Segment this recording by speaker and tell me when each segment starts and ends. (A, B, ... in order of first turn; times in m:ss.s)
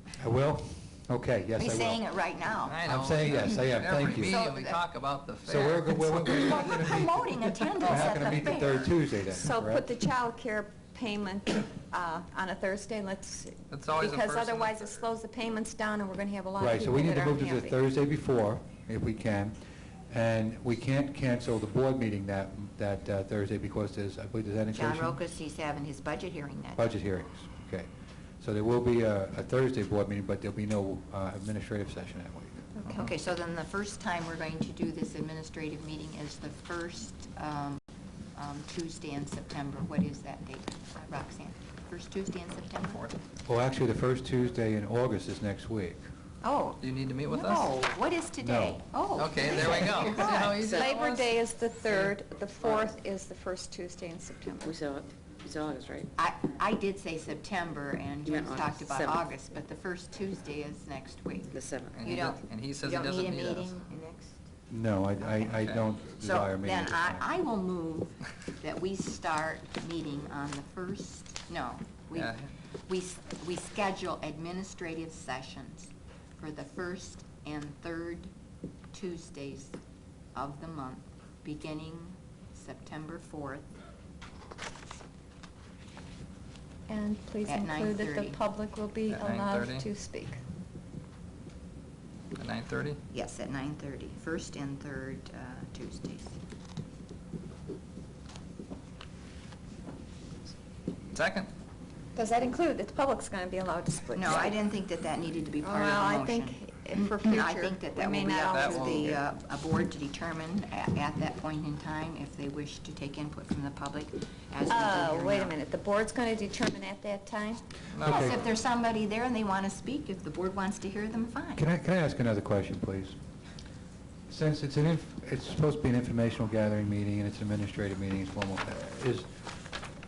0:00.2-0:02.0 A
0:01.6-0:02.8 B
0:02.6-0:04.4 A
0:02.7-0:06.1 C
0:03.3-0:04.8 B
0:05.4-0:09.9 A
0:06.0-0:09.0 B
0:09.3-0:17.8 D
0:13.7-0:14.9 C
0:16.6-0:19.6 A
0:20.1-0:25.2 A
0:24.7-0:26.9 B
0:26.8-0:27.9 A
0:28.4-0:33.1 A
0:32.9-0:37.8 B
0:38.3-0:43.0 B
0:42.9-0:43.2 C
0:43.4-0:46.0 A
0:46.4-0:50.6 B
0:46.8-0:47.7 C
0:48.4-0:48.8 A
0:49.2-0:51.4 C
0:50.7-0:54.8 D
0:54.6-0:56.1 E
0:56.2-1:04.4 B
1:01.5-1:02.0 E
1:01.9-1:03.8 C
1:04.7-1:07.3 A
1:05.5-1:05.8 C
1:06.2-1:18.3 B
1:12.1-1:12.5 C
1:18.9-1:19.8 B
1:20.3-1:23.7 B
1:26.9-1:30.4 D
1:27.4-1:28.4 B
1:29.1-1:29.9 C
1:32.4-1:33.0 C
1:33.1-1:36.4 B
1:41.1-1:41.5 C
1:42.2-1:44.6 D
1:44.1-1:55.6 B
1:45.6-1:49.2 D
1:48.5-1:49.2 C
1:54.7-1:57.6 D
1:57.9-1:58.4 C
1:58.0-1:58.5 A
1:58.0-2:01.6 B
2:01.6-2:03.2 A
2:04.3-2:09.4 A